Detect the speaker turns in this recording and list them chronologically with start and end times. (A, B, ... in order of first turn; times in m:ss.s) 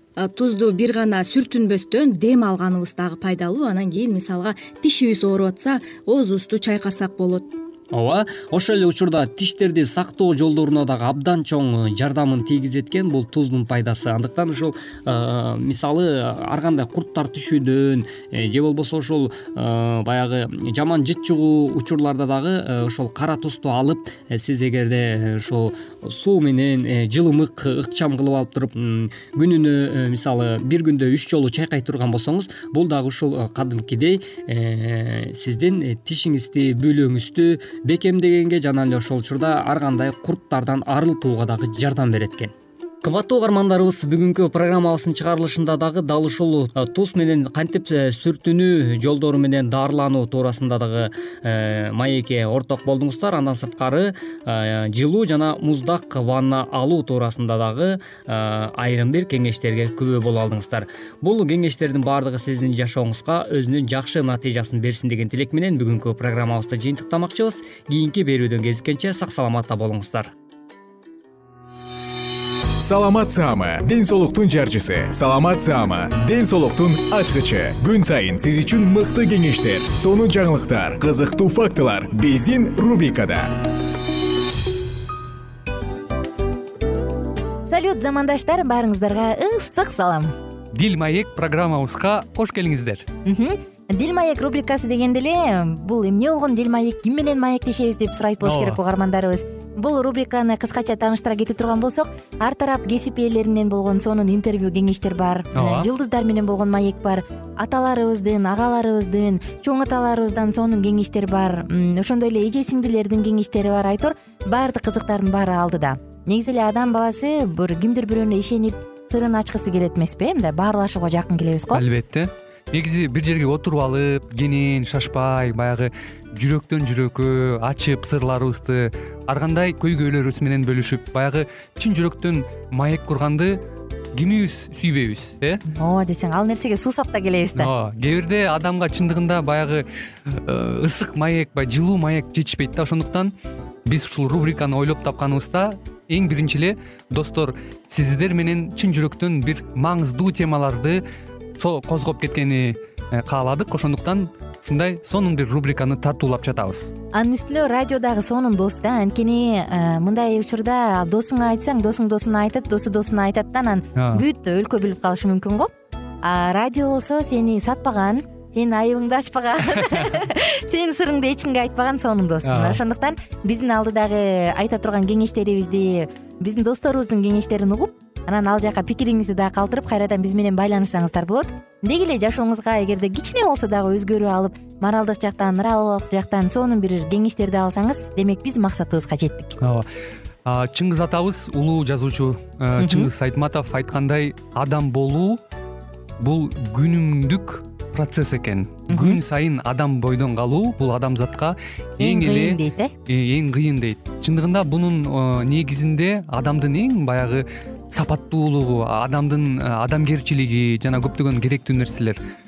0:00.2-0:07.5 A
0:07.9-1:10.3 B
1:12.8-1:23.6 C
1:27.7-1:30.3 D
1:30.7-1:33.1 E
1:33.2-2:01.8 D
1:38.4-1:38.8 E
1:45.6-1:45.9 E
2:01.7-2:13.6 E
2:14.1-2:15.6 E
2:15.7-2:17.7 D
2:17.6-2:23.3 E
2:23.8-2:31.0 E
2:31.6-2:36.9 E
2:37.1-3:09.6 D
2:44.0-2:44.2 E
2:52.5-2:52.8 E
3:09.6-3:09.8 E
3:10.4-3:15.4 E
3:12.8-3:13.1 D
3:16.2-3:32.2 E
3:18.9-3:19.2 D
3:22.0-3:22.9 D